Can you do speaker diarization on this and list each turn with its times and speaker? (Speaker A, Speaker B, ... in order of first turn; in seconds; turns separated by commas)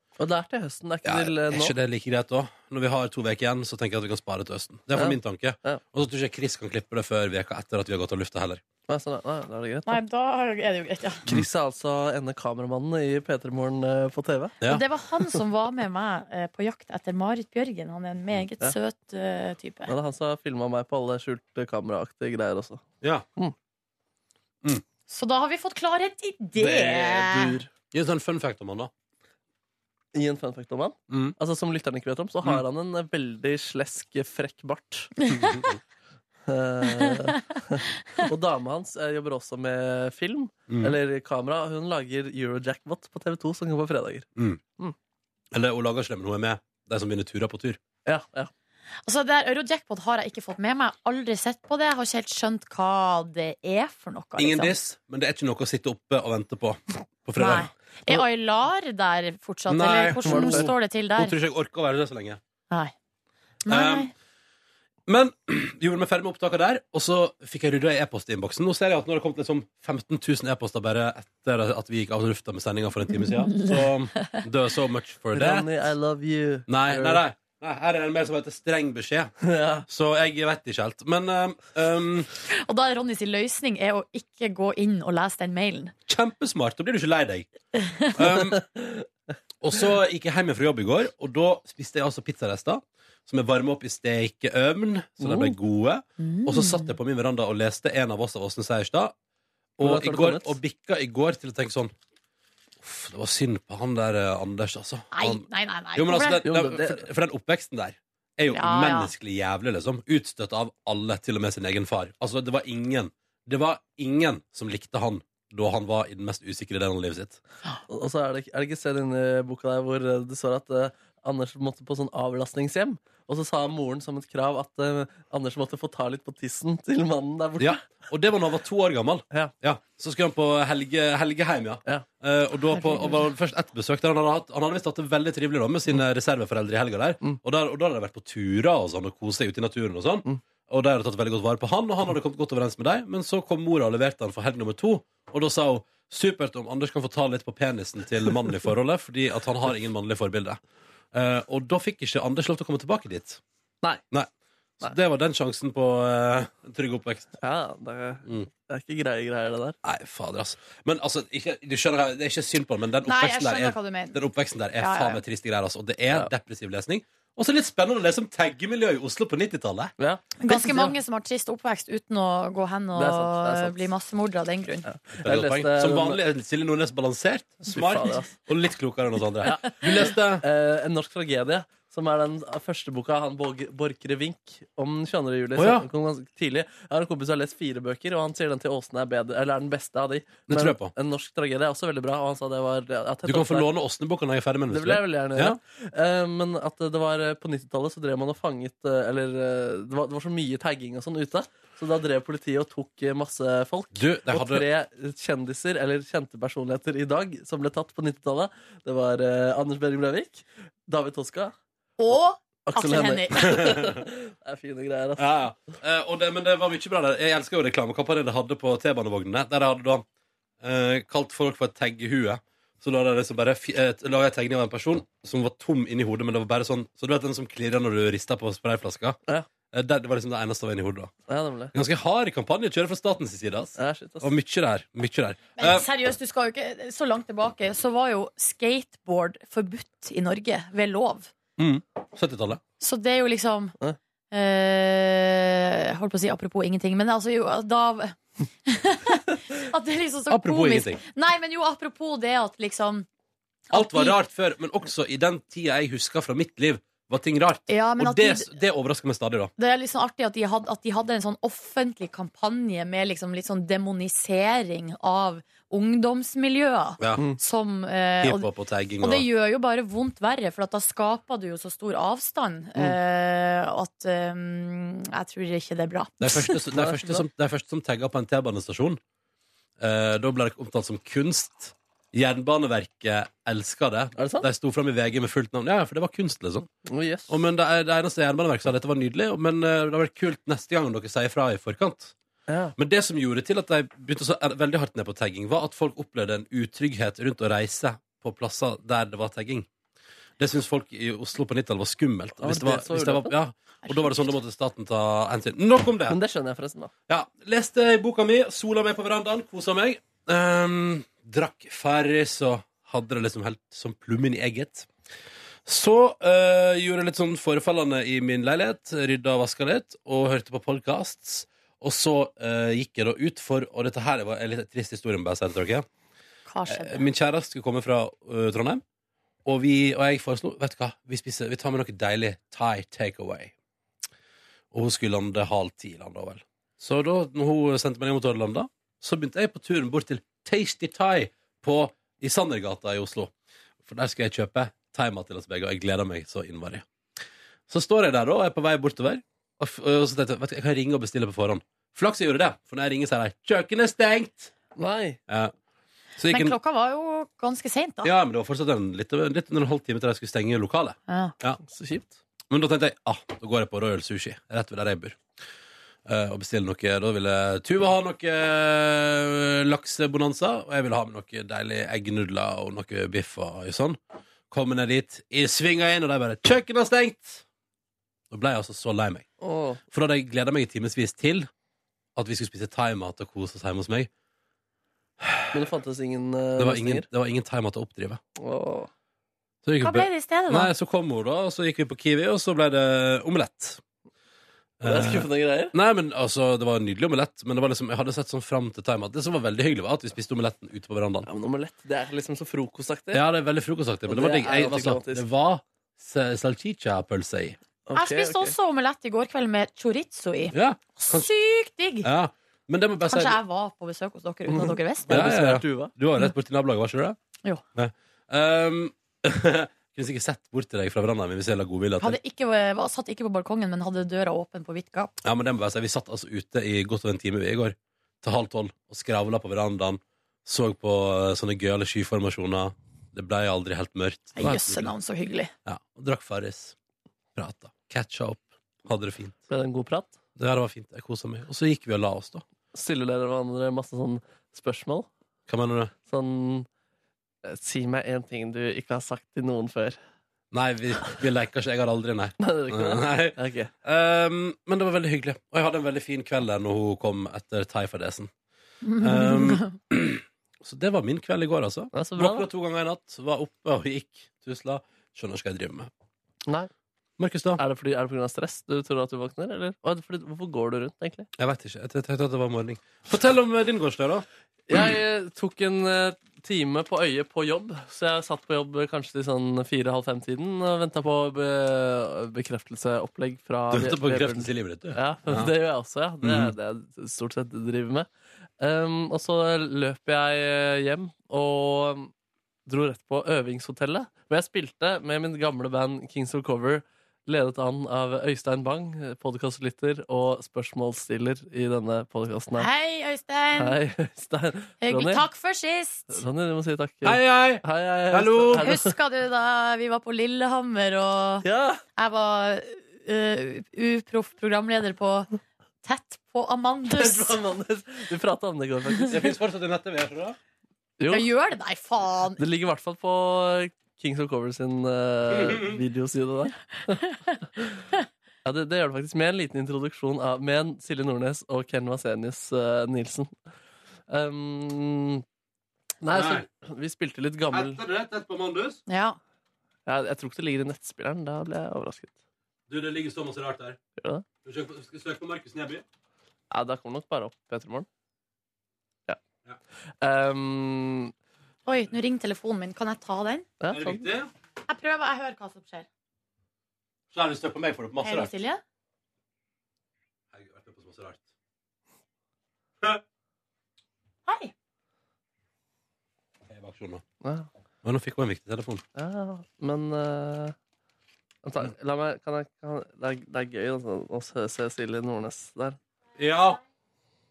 Speaker A: 0.2-1.7, Speaker B: 1.1-8.6, Speaker A: 5.0-5.8, Speaker A: 8.9-10.0, Speaker C: 9.9-11.3, Speaker A: 11.3-14.6, Speaker C: 14.7-19.9, Speaker A: 19.9-22.8, Speaker C: 25.1-27.6, Speaker A: 26.6-27.7, Speaker B: 27.9-28.9, Speaker A: 30.1-35.3, Speaker B: 31.1-31.4, Speaker C: 35.3-35.6, Speaker B: 35.4-35.8, Speaker A: 36.5-45.0, Speaker B: 40.7-41.0, Speaker B: 44.4-44.6, Speaker B: 45.5-47.8, Speaker A: 48.0-48.5, Speaker C: 49.1-54.8, Speaker B: 54.4-57.7, Speaker C: 57.4-61.4, Speaker B: 59.7-62.4, Speaker A: 60.2-60.7, Speaker C: 63.6-64.1, Speaker B: 63.7-64.1, Speaker B: 65.1-75.7, Speaker C: 73.2-74.4, Speaker A: 75.3-77.2, Speaker B: 76.7-79.3, Speaker A: 79.4-79.8, Speaker B: 79.9-82.3, Speaker C: 82.5-85.9, Speaker B: 86.1-87.5, Speaker C: 87.8-88.1, Speaker B: 88.2-88.6, Speaker A: 88.3-89.0, Speaker B: 89.6-99.2, Speaker A: 95.2-95.6, Speaker C: 96.2-96.9, Speaker B: 99.8-101.9, Speaker A: 99.8-100.6, Speaker B: 102.8-105.5, Speaker C: 105.1-106.4, Speaker B: 106.0-117.4, Speaker A: 106.4-107.1, Speaker C: 108.5-109.1, Speaker A: 117.9-127.8, Speaker B: 127.6-150.6, Speaker C: 132.7-133.2, Speaker B: 151.1-153.4, Speaker B: 154.8-157.4, Speaker A: 157.4-159.8, Speaker B: 159.8-169.9, Speaker C: 163.1-164.2, Speaker C: 164.8-165.2, Speaker A: 170.0-171.0, Speaker C: 170.4-174.9, Speaker A: 173.0-173.9, Speaker A: 174.9-176.2, Speaker B: 175.2-180.4, Speaker A: 177.7-178.4, Speaker A: 179.4-193.7, Speaker B: 185.6-185.9, Speaker B: 190.5-190.9, Speaker B: 193.2-195.6, Speaker A: 194.7-211.5, Speaker B: 203.9-204.6, Speaker C: 212.0-213.6, Speaker A: 212.7-215.4, Speaker B: 213.6-213.9, Speaker B: 215.2-220.1, Speaker B: 220.6-229.2, Speaker B: 229.7-231.1, Speaker A: 231.3-231.8, Speaker B: 231.7-235.9, Speaker A: 233.8-234.3, Speaker C: 235.6-241.3, Speaker B: 241.6-242.6, Speaker C: 242.8-243.8, Speaker C: 244.3-253.1, Speaker B: 250.3-251.0, Speaker C: 253.7-254.2, Speaker B: 253.7-259.5, Speaker C: 257.7-258.5, Speaker C: 259.6-268.5, Speaker B: 268.2-269.3, Speaker C: 269.0-276.6, Speaker B: 276.2-279.0, Speaker A: 276.7-277.2, Speaker B: 279.8-286.7, Speaker A: 284.2-284.5, Speaker A: 286.9-287.4, Speaker B: 287.3-292.1, Speaker A: 292.5-292.7, Speaker B: 292.8-299.7, Speaker B: 300.4-306.2, Speaker A: 302.4-303.4, Speaker A: 306.1-306.9, Speaker B: 307.1-314.9, Speaker B: 315.6-325.9, Speaker C: 326.5-327.0, Speaker B: 326.7-328.8, Speaker B: 329.4-333.5, Speaker B: 334.7-343.3, Speaker B: 343.8-346.9, Speaker B: 347.7-354.5, Speaker A: 354.8-355.2, Speaker B: 355.3-355.5, Speaker B: 356.2-356.6, Speaker C: 356.3-358.1, Speaker B: 358.0-361.6, Speaker C: 361.1-361.3, Speaker A: 361.6-362.2, Speaker B: 362.5-365.2, Speaker B: 366.1-374.0, Speaker B: 374.5-377.4, Speaker B: 378.3-379.3, Speaker A: 379.4-379.8, Speaker B: 379.9-381.5, Speaker B: 382.2-384.1, Speaker B: 385.2-385.6, Speaker A: 385.5-387.1, Speaker B: 386.6-388.2, Speaker A: 388.4-388.9, Speaker B: 389.6-393.8, Speaker C: 389.8-390.7, Speaker B: 394.8-401.3, Speaker A: 394.8-395.8, Speaker A: 401.3-403.2, Speaker B: 403.1-407.6, Speaker A: 404.1-405.2, Speaker A: 407.9-408.6, Speaker C: 407.9-412.1, Speaker B: 410.5-411.3, Speaker B: 412.0-413.4, Speaker C: 413.1-415.1, Speaker A: 414.5-415.9, Speaker B: 415.1-417.2, Speaker B: 417.8-422.2, Speaker C: 422.0-425.1, Speaker B: 425.2-434.9, Speaker C: 434.4-435.5, Speaker B: 435.7-436.8, Speaker B: 437.4-439.4, Speaker A: 439.5-440.2, Speaker B: 440.4-442.4, Speaker A: 442.7-445.1, Speaker B: 445.5-445.9, Speaker A: 446.0-446.7, Speaker A: 447.4-450.0, Speaker B: 450.5-458.3, Speaker A: 452.4-453.7, Speaker C: 458.9-459.8, Speaker B: 459.0-465.9, Speaker A: 461.9-462.5, Speaker B: 467.2-467.6, Speaker A: 467.6-471.3, Speaker B: 471.4-474.2, Speaker A: 474.7-488.1, Speaker B: 483.7-485.5, Speaker B: 486.2-486.5, Speaker A: 488.6-492.1, Speaker A: 492.7-502.7, Speaker C: 502.6-503.8, Speaker A: 503.6-505.2, Speaker C: 504.8-506.2, Speaker A: 506.1-508.9, Speaker B: 507.0-508.7, Speaker C: 508.6-515.3, Speaker A: 511.4-511.8, Speaker C: 515.8-517.4, Speaker A: 516.9-519.2, Speaker B: 519.1-520.4, Speaker A: 521.0-521.3, Speaker C: 521.1-522.4, Speaker A: 522.4-527.8, Speaker B: 525.3-525.8, Speaker A: 528.5-533.4, Speaker A: 534.1-535.2, Speaker A: 536.0-537.8, Speaker B: 536.1-536.5, Speaker B: 537.5-538.8, Speaker C: 538.9-539.2, Speaker A: 539.9-542.1, Speaker B: 542.7-543.8, Speaker A: 544.0-544.2, Speaker B: 544.4-545.9, Speaker A: 546.5-547.9, Speaker A: 550.0-551.1, Speaker C: 551.7-553.5, Speaker A: 553.6-554.0, Speaker B: 553.7-554.3, Speaker C: 554.7-555.9, Speaker B: 557.1-558.3, Speaker C: 558.0-558.6, Speaker B: 560.3-561.2, Speaker C: 564.3-564.5, Speaker B: 566.5-567.0, Speaker B: 567.8-568.8, Speaker A: 569.0-570.5, Speaker A: 571.4-575.8, Speaker B: 576.2-576.6